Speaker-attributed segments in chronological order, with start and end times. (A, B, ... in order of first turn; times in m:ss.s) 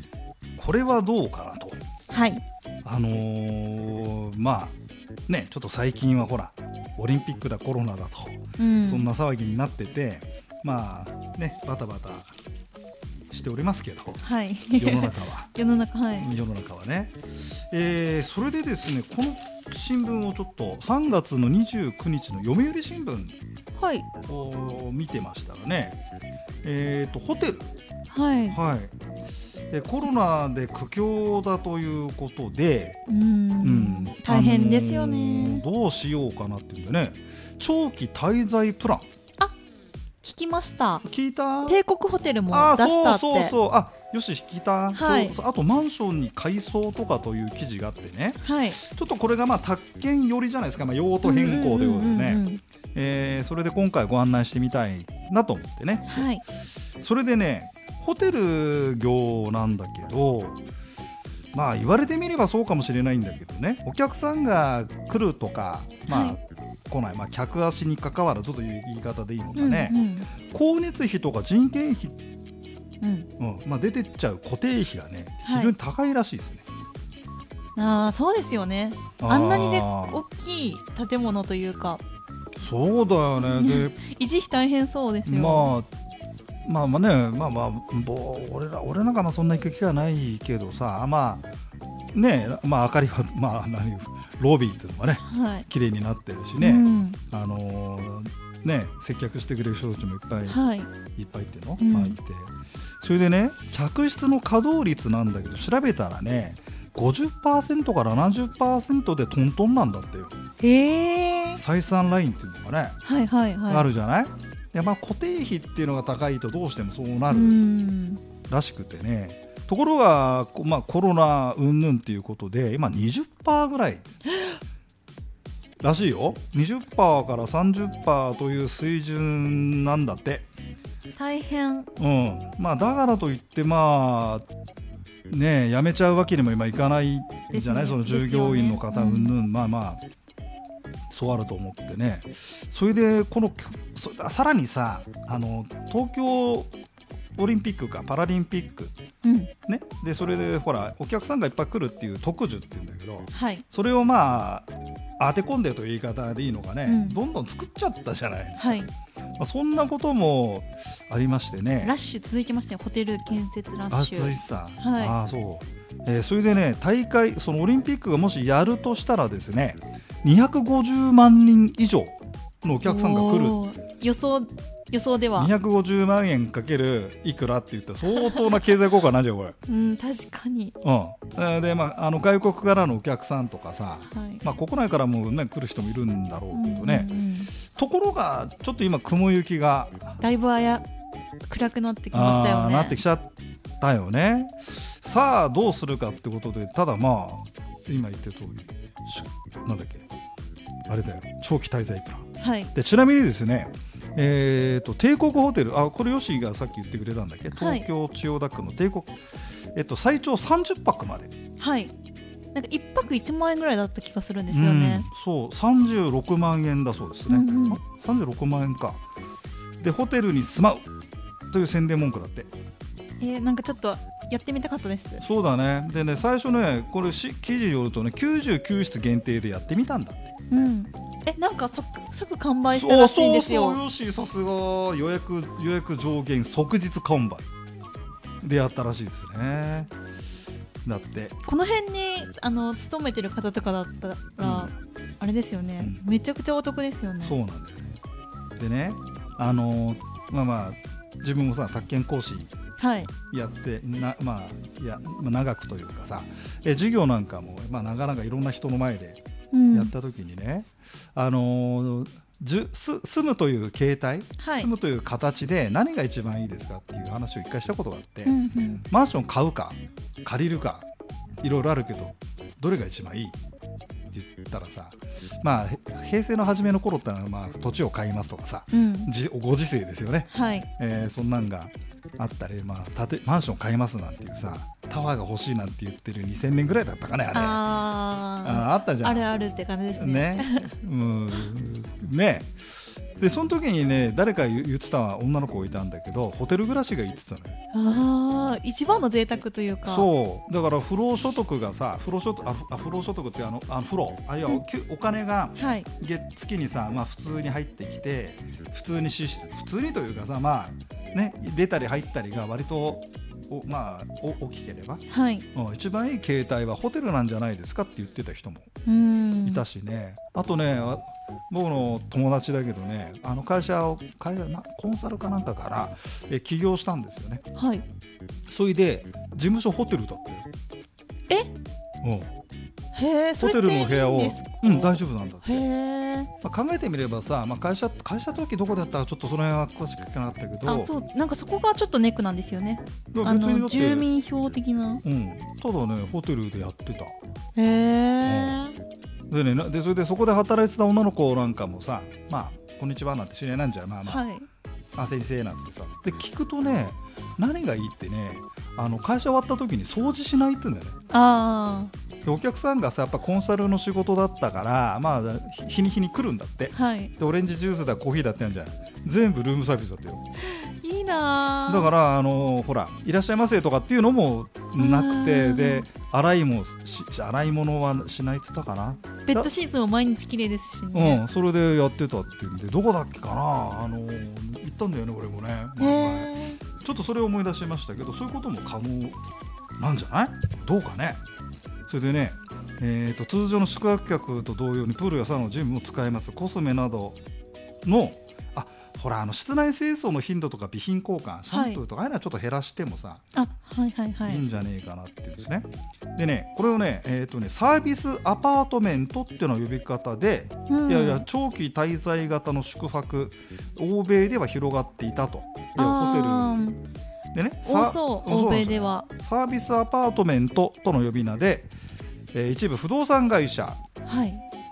0:00.6-0:01.8 A
0:02.1-0:02.4 B
0:02.8-0:04.7 A
0:05.3-0:12.3 A
0:08.6-0:09.1 B
0:13.3-0:14.2 A
0:14.2-0:16.3 B
0:14.8-0:15.5 A
0:16.2-0:23.4 A
0:23.8-0:24.1 B
0:24.2-0:26.0 A
0:26.6-0:27.8 A
0:28.1-0:28.6 B
0:28.5-0:28.9 A
0:29.7-0:33.0 A
0:33.1-0:35.6 B
0:33.6-0:39.1 A
0:40.2-0:41.0 B
0:41.0-0:41.8 A
0:41.6-0:43.5 B
0:42.5-0:52.4 A
0:44.9-0:45.3 B
0:48.4-0:48.8 B
0:51.2-0:52.6 B
0:52.9-0:56.3 A
0:56.1-0:56.4 B
0:57.0-1:00.6 A
1:01.5-1:12.2 A
1:06.1-1:06.4 B
1:09.6-1:10.3 B
1:13.0-1:13.3 B
1:13.4-1:16.6 A
1:15.4-1:15.7 B
1:17.8-1:22.0 B
1:19.2-1:20.2 A
1:22.6-1:24.0 A
1:23.5-1:25.7 B
1:25.2-1:25.9 A
1:26.6-1:31.5 A
1:32.1-1:40.6 A
1:35.2-1:35.7 B
1:36.6-1:37.2 B
1:40.5-1:40.9 B
1:41.2-1:50.4 A
1:41.8-1:42.2 B
1:50.6-1:51.6 B
1:51.6-1:53.0 A
1:53.0-1:53.9 B
1:53.7-1:57.6 A
1:57.3-1:58.2 B
1:58.5-2:04.1 A
2:05.8-2:10.5 A
2:11.2-2:11.9 B
2:12.0-2:14.4 A
2:15.3-2:20.0 A
2:17.5-2:19.3 B
2:21.1-2:26.7 A
2:27.4-2:28.9 A
2:29.2-2:29.5 B
2:29.7-2:38.9 A
2:33.3-2:33.6 B
2:36.8-2:37.2 B
2:38.6-2:38.9 B
2:39.4-2:41.9 A
2:41.8-2:45.2 B
2:43.9-2:53.6 A
2:52.8-2:55.5 B
2:55.3-2:59.6 A
2:59.7-3:00.7 B
3:00.8-3:10.2 A
3:04.0-3:04.4 B
3:06.5-3:07.5 B
3:10.2-3:10.8 B
3:11.5-3:13.0 B
3:12.1-3:20.1 A
3:20.9-3:31.3 A
3:22.4-3:22.7 B
3:27.5-3:27.9 B
3:31.6-3:31.9 B
3:32.5-3:35.1 B
3:34.5-3:39.0 A
3:37.3-3:37.8 B
3:39.8-3:40.8 A
3:41.5-3:42.5 A
3:43.2-3:45.2 B
3:45.2-3:50.3 A
3:50.5-3:53.8 B
3:52.7-3:57.4 A
3:58.4-3:59.9 A
4:00.8-4:01.4 A
4:01.4-4:07.4 B
4:04.4-4:04.7 A
4:07.2-4:08.0 A
4:08.6-4:12.5 A
4:12.8-4:13.1 B
4:13.3-4:19.2 A
4:19.5-4:19.9 B
4:19.7-4:30.9 A
4:24.4-4:24.7 B
4:28.2-4:28.8 B
4:31.4-4:33.3 A
4:34.1-4:47.6 A
4:38.7-4:39.1 B
4:40.3-4:40.7 B
4:47.3-4:50.7 B
4:48.4-4:49.3 A
4:50.0-4:57.6 A
4:57.7-5:00.1 B
4:59.8-5:18.7 A
5:05.6-5:05.9 B
5:15.1-5:15.5 B
5:18.8-5:19.6 B
5:19.4-5:27.4 A
5:27.5-5:27.8 B
5:28.5-5:30.5 A
5:32.0-5:32.3 A
5:32.9-5:36.3 B
5:33.4-5:35.7 A
5:36.4-5:40.9 A
5:40.6-5:45.0 B
5:43.1-5:44.1 A
5:45.0-5:47.1 A
5:47.6-5:48.8 B
5:48.2-5:48.6 A
5:49.3-5:54.2 A
5:54.0-5:54.5 B
5:55.0-6:01.0 A
6:01.1-6:01.9 B
6:02.2-6:10.2 A
6:06.7-6:07.1 B
6:10.5-6:11.9 B
6:11.7-6:19.5 A
6:14.8-6:15.9 B
6:19.3-6:21.2 B
6:20.9-6:29.2 A
6:25.8-6:26.6 B
6:29.8-6:31.2 A
6:31.9-6:37.2 A
6:37.8-6:43.2 A
6:41.5-6:41.8 B
6:43.3-6:44.4 B
6:44.2-6:56.6 A
6:50.7-6:51.2 B
6:55.7-6:56.8 B
6:57.3-7:01.7 A
6:57.6-6:59.1 B
7:02.3-7:03.8 A
7:04.0-7:04.4 B